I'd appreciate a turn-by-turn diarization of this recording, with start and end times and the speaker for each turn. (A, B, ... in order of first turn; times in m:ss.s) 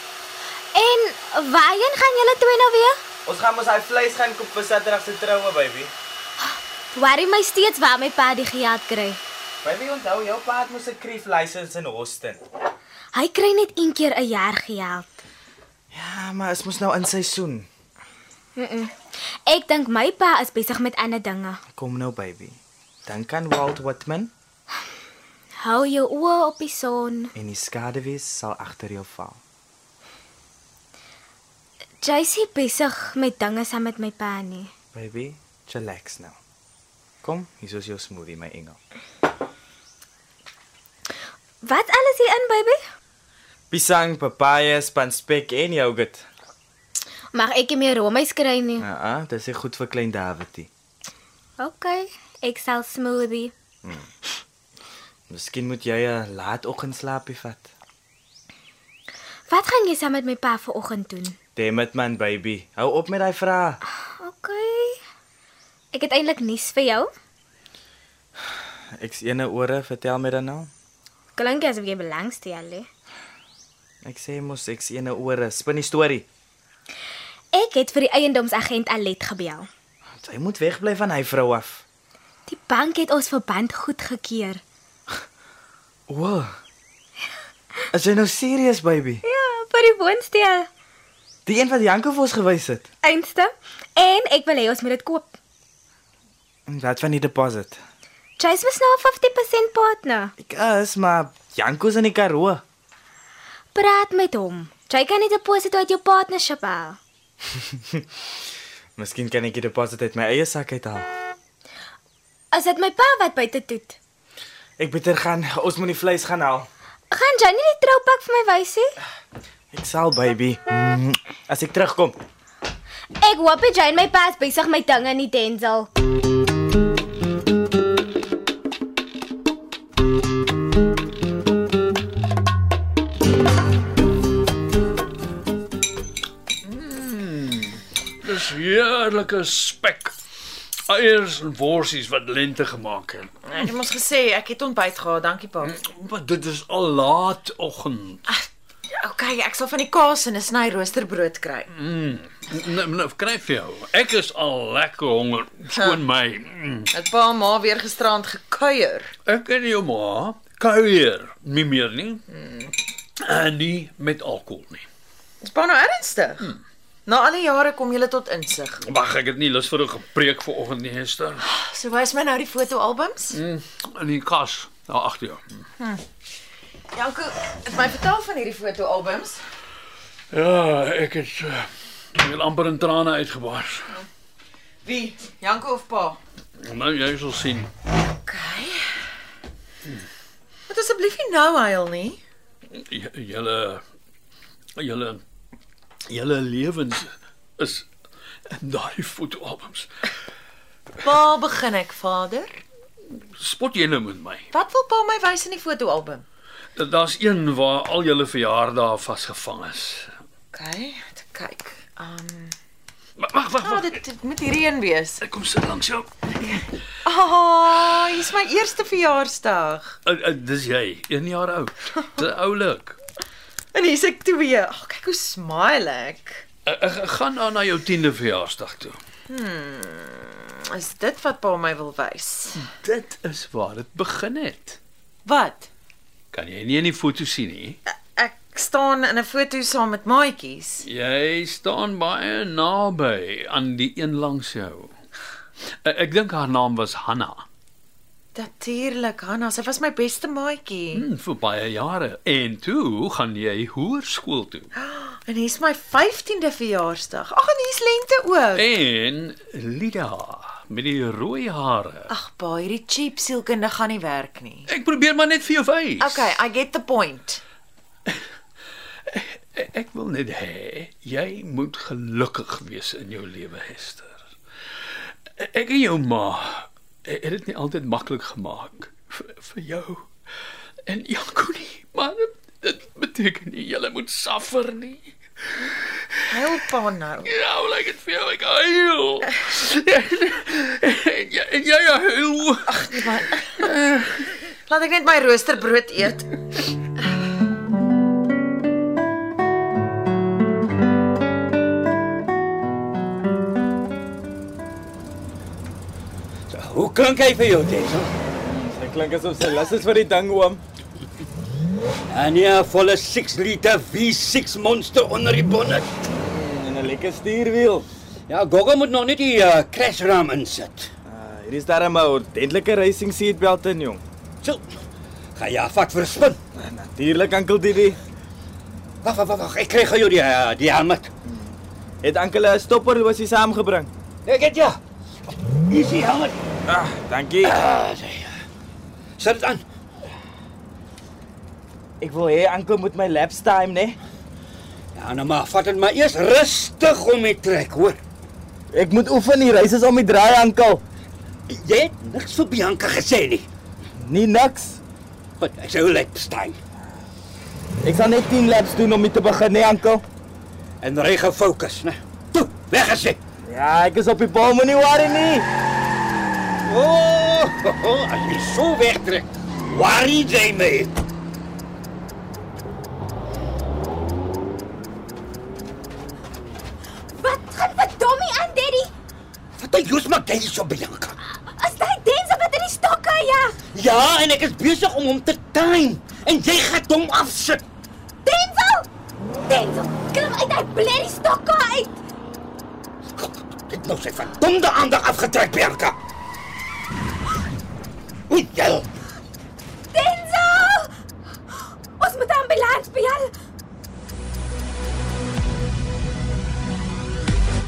0:00.7-0:03.0 A
0:03.2-0:05.9 B
0:06.5-0:09.2 A
0:09.6-0:12.4 B
0:13.1-0:15.1 A
0:15.9-0:17.7 B
0:18.6-0:18.9 A
0:19.5-0:21.6 A
0:21.7-0:24.3 B
0:25.6-0:27.3 A
0:27.3-0:29.4 B
0:32.0-0:34.7 A
0:34.9-0:36.4 B
0:37.2-0:38.8 B
0:41.6-0:42.8 A
0:43.7-0:46.2 B
0:47.3-0:48.8 A
0:48.8-0:50.7 B
0:51.6-0:53.5 A
0:55.3-0:57.7 B
0:59.5-1:01.3 A
1:01.6-1:03.8 B
1:04.0-1:05.0 A
1:05.9-1:07.1 A
1:09.0-1:10.7 B
1:11.4-1:12.9 A
1:14.0-1:16.2 B
1:17.5-1:19.7 A
1:20.2-1:21.8 B
1:22.5-1:24.6 A
1:26.1-1:26.5 B
1:27.9-1:29.2 B
1:29.2-1:30.7 A
1:31.4-1:32.9 B
1:33.0-1:35.4 A
1:36.7-1:37.8 B
1:38.4-1:40.3 A
1:40.4-1:42.6 B
1:43.7-1:47.0 A
1:49.0-1:51.0 B
1:52.5-1:54.0 A
1:54.8-1:56.7 B
1:57.1-1:59.0 A
1:59.7-2:02.2 B
2:03.2-2:05.9 A
2:16.7-2:20.1 C
2:20.9-2:23.4 C
2:23.5-2:25.8 D
2:25.6-2:28.2 C
2:28.3-2:31.7 D
2:31.7-2:36.9 C
2:35.7-2:36.0 D
2:36.9-2:39.1 D
2:39.2-2:42.3 C
2:43.2-2:44.8 C
2:45.4-2:46.5 D
2:47.0-2:48.8 D
2:48.8-2:51.4 C
2:51.4-2:53.4 D
2:53.3-2:55.4 C
2:56.9-2:59.4 D
3:00.3-3:04.0 C
3:04.8-3:06.2 D
3:06.6-3:07.7 C
3:08.2-3:09.0 D
3:10.7-3:12.2 D
3:12.7-3:13.8 C
3:14.8-3:15.2 C
3:16.1-3:17.9 C
3:18.5-3:19.9 C
3:21.0-3:22.6 D
3:23.4-3:24.4 C
3:24.5-3:26.2 D
3:26.8-3:30.1 C
3:30.5-3:32.5 D
3:33.2-3:34.0 C
3:33.6-3:35.2 D
3:35.2-3:36.1 C
3:37.0-3:40.0 D
3:40.0-3:43.0 C
3:43.7-3:46.4 D
3:46.6-3:49.0 C
3:49.3-3:52.6 D
3:52.5-3:54.8 C
3:55.2-3:55.7 D
3:56.3-3:57.8 C
3:57.9-4:00.8 D
4:00.8-4:04.9 C
4:05.8-4:07.4 C
4:08.3-4:11.0 D
4:10.9-4:14.7 C
4:14.8-4:18.7 D
4:18.5-4:22.1 C
4:22.1-4:24.7 D
4:24.7-4:26.4 C
4:26.0-4:27.4 D
4:29.1-4:34.2 C
4:35.4-4:40.1 C
4:40.9-4:45.6 C
4:46.3-4:47.3 D
4:47.2-4:53.0 C
4:52.7-4:53.7 D
4:53.6-4:54.3 C
4:54.7-4:56.3 D
5:06.5-5:08.1 E
5:08.4-5:10.6 B
5:12.1-5:16.0 E
5:16.2-5:17.8 B
5:18.3-5:20.9 E
5:21.1-5:24.0 B
5:24.4-5:24.7 E
5:25.4-5:26.4 E
5:26.6-5:28.0 B
5:29.0-5:31.1 E
5:32.0-5:33.9 B
5:34.2-5:34.8 E
5:35.7-5:36.4 E
5:36.7-5:37.6 B
5:37.4-5:38.3 E
5:39.2-5:39.6 E
5:42.0-5:44.0 B
5:44.9-5:48.0 E
5:48.7-5:50.8 B
5:51.5-5:53.5 E
5:54.0-5:54.8 B
5:55.4-5:56.6 E
5:57.8-6:00.0 B
6:00.8-6:03.2 E
6:03.4-6:05.5 B
6:06.6-6:11.0 E
6:17.1-6:18.9 A
6:19.6-6:21.1 E
6:21.4-6:23.6 A
6:23.7-6:27.6 E
6:28.2-6:28.9 A
6:29.4-6:32.0 A
6:33.2-6:36.0 E
6:38.3-6:38.8 E
6:39.9-6:40.9 A
6:42.0-6:43.3 A